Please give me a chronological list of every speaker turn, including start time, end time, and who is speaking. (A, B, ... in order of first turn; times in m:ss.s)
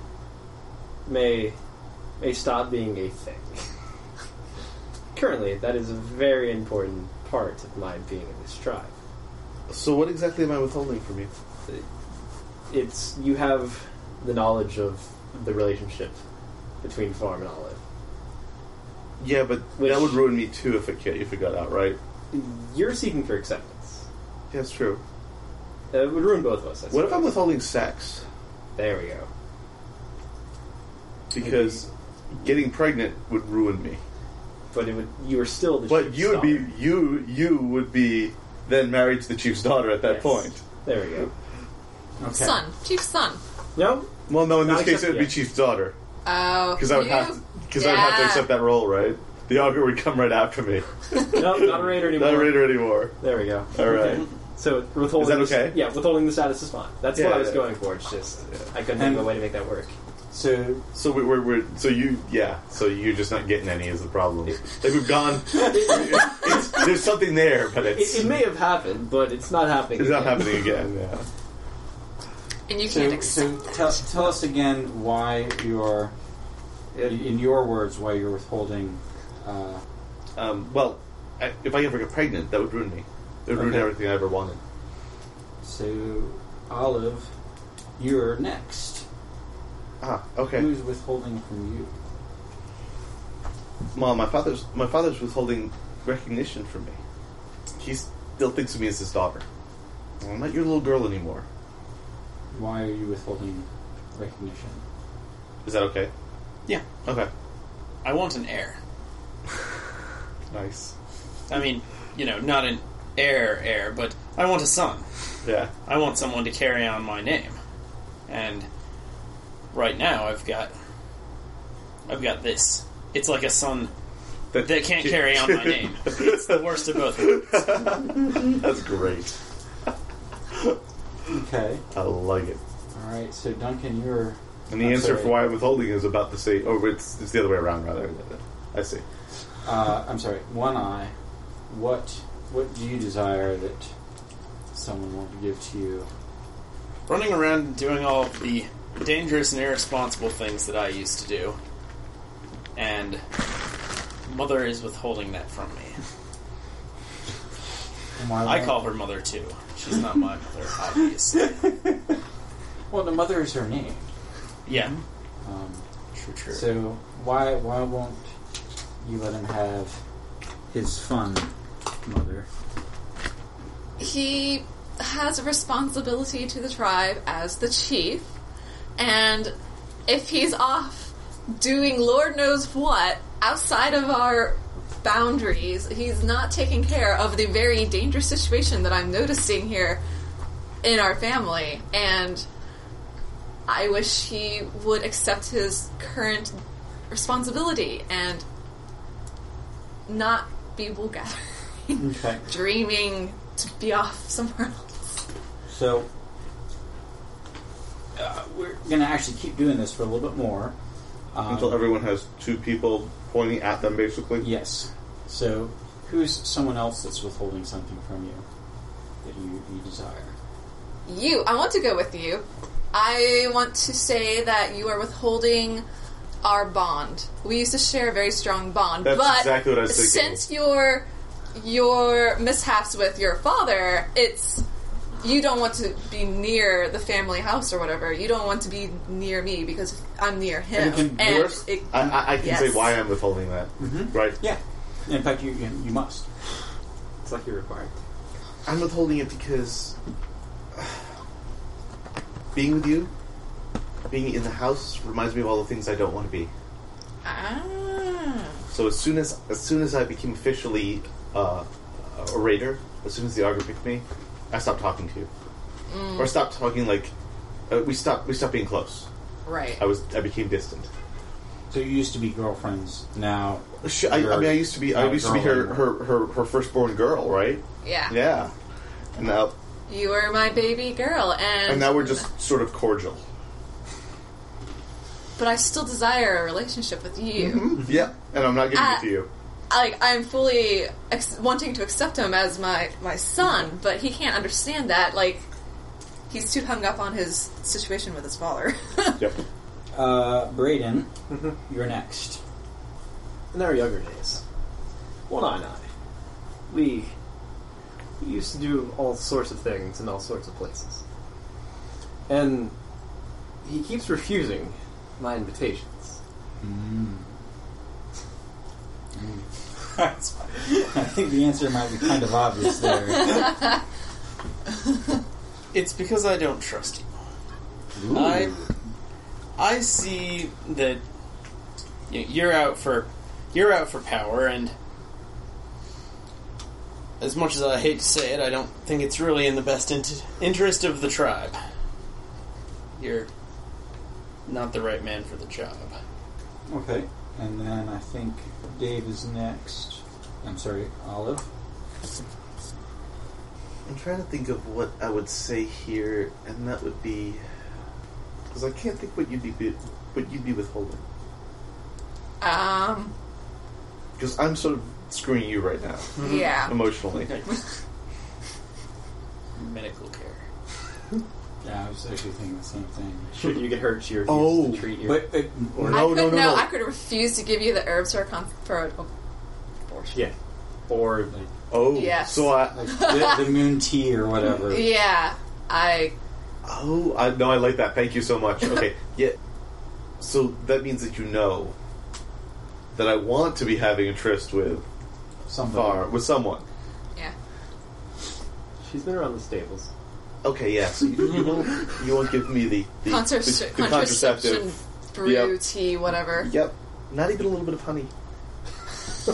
0:01.1-0:01.6 A
0:02.2-0:03.7 A
0:05.1-0:08.9 A
0:09.7-0:11.3 B
0:12.7-0:16.2 A
0:16.8-0:17.8 A
0:19.2-0:22.0 B
0:19.8-0:20.3 A
0:22.3-0:24.0 A
0:24.5-0:25.0 B
0:25.9-0:27.4 A
0:26.9-0:28.2 B
0:28.8-0:29.3 A
0:31.3-0:34.0 B
0:31.4-0:31.8 A
0:34.7-0:36.7 A
0:35.9-0:40.6 B
0:40.0-0:41.3 A
0:42.2-0:42.6 C
0:42.3-0:43.4 D
0:43.8-0:45.4 A
0:44.3-0:46.0 B
0:46.2-0:48.6 D
0:46.8-0:53.2 B
0:51.3-0:59.9 A
0:53.7-0:54.3 B
0:55.2-0:55.8 B
0:57.1-0:57.7 B
0:59.0-0:59.4 C
1:00.3-1:00.8 C
1:00.9-1:08.3 B
1:06.3-1:06.6 A
1:07.8-1:10.7 A
1:10.0-1:11.3 B
1:12.7-1:14.0 D
1:12.8-1:16.1 C
1:16.9-1:17.2 A
1:17.0-1:19.8 C
1:20.4-1:24.6 B
1:23.5-1:23.9 C
1:25.6-1:27.3 C
1:28.0-1:29.0 C
1:30.0-1:30.7 B
1:30.6-1:31.9 C
1:33.9-1:37.0 B
1:37.8-1:39.4 B
1:40.2-1:41.4 B
1:42.5-1:44.8 C
1:45.6-1:46.1 B
1:47.0-1:47.3 B
1:48.0-1:48.8 E
1:50.5-1:50.9 B
1:51.5-1:55.0 E
1:55.4-1:55.7 B
1:55.8-1:57.6 E
1:58.3-1:58.7 E
1:59.7-2:00.7 E
2:02.1-2:03.9 E
2:04.5-2:09.3 B
2:04.5-2:07.6 E
2:11.3-2:11.8 C
2:11.9-2:12.6 B
2:12.9-2:15.4 C
2:14.7-2:19.0 B
2:19.6-2:21.1 C
2:21.7-2:23.9 C
2:24.7-2:26.1 C
2:27.1-2:31.6 E
2:32.8-2:33.2 E
2:34.3-2:36.0 E
2:38.2-2:38.8 C
2:38.4-2:41.7 E
2:41.4-2:42.2 C
2:42.9-2:44.1 C
2:44.7-2:45.0 E
2:45.4-2:45.8 C
2:46.1-2:46.8 E
2:46.5-2:48.3 C
2:49.0-2:50.0 C
2:50.7-2:51.5 C
2:52.0-2:52.5 C
2:54.0-2:58.3 D
2:59.0-2:59.5 D
3:00.1-3:10.0 D
3:10.8-3:12.5 D
3:13.7-3:16.6 D
3:17.1-3:18.4 D
3:20.1-3:24.9 D
3:22.0-3:22.4 C
3:25.7-3:26.1 C
3:28.2-3:30.8 C
3:31.3-3:31.9 C
3:31.5-3:34.5 B
3:34.4-3:38.4 C
3:39.2-3:40.3 C
3:41.1-3:45.8 D
3:46.4-3:54.6 D
3:49.0-3:50.4 B
3:55.2-4:03.0 D
4:00.7-4:04.4 B
4:00.9-4:01.4 C
4:03.8-4:06.2 C
4:07.2-4:08.0 A
4:08.6-4:10.0 B
4:12.5-4:13.1 B
4:14.1-4:16.5 B
4:17.2-4:18.5 D
4:18.7-4:25.3 B
4:25.9-4:26.3 D
4:26.2-4:27.1 B
4:27.7-4:29.1 B
4:29.5-4:29.8 D
4:29.8-4:30.9 B
4:31.7-4:35.9 C
4:33.8-4:38.5 B
4:37.8-4:38.2 D
4:39.2-4:39.6 B
4:39.9-4:42.3 D
4:41.7-4:43.2 B
4:45.4-4:47.9 D
4:47.7-4:49.3 B
4:48.7-4:49.1 D
4:49.7-4:55.5 D
4:56.3-4:59.3 D
4:59.9-5:01.1 C
5:01.7-5:02.4 C
5:03.5-5:04.4 A
5:05.3-5:05.9 A
5:06.7-5:07.1 A
5:08.2-5:11.0 A
5:12.3-5:12.7 A
5:13.6-5:16.2 A
5:16.6-5:17.4 C
5:19.1-5:23.7 C
5:25.7-5:27.1 E
5:28.0-5:28.7 C
5:28.1-5:28.6 E
5:29.6-5:31.0 E
5:32.1-5:34.7 E
5:37.2-5:41.6 E
5:43.0-5:43.3 E
5:44.5-5:45.9 E
5:46.7-5:51.5 C
5:53.9-5:57.4 B
5:58.5-6:01.0 B
6:02.4-6:03.1 D
6:04.2-6:07.4 B
6:06.2-6:06.8 D
6:09.6-6:10.4 E
6:11.6-6:13.4 C
6:13.3-6:15.3 A
6:14.3-6:15.0 B
6:15.0-6:16.2 C
6:15.8-6:16.7 B
6:15.9-6:19.1 D
6:19.9-6:20.3 D
6:20.9-6:21.5 A
6:21.7-6:23.0 B
6:21.8-6:23.6 D
6:22.8-6:24.9 C
6:24.5-6:26.1 D
6:26.6-6:29.4 B
6:30.2-6:31.8 B
6:33.0-6:34.8 B
6:35.5-6:36.1 C
6:35.7-6:36.6 B
6:38.8-6:39.9 A
6:40.4-6:45.6 B
6:43.1-6:46.5 D
6:46.3-6:48.1 B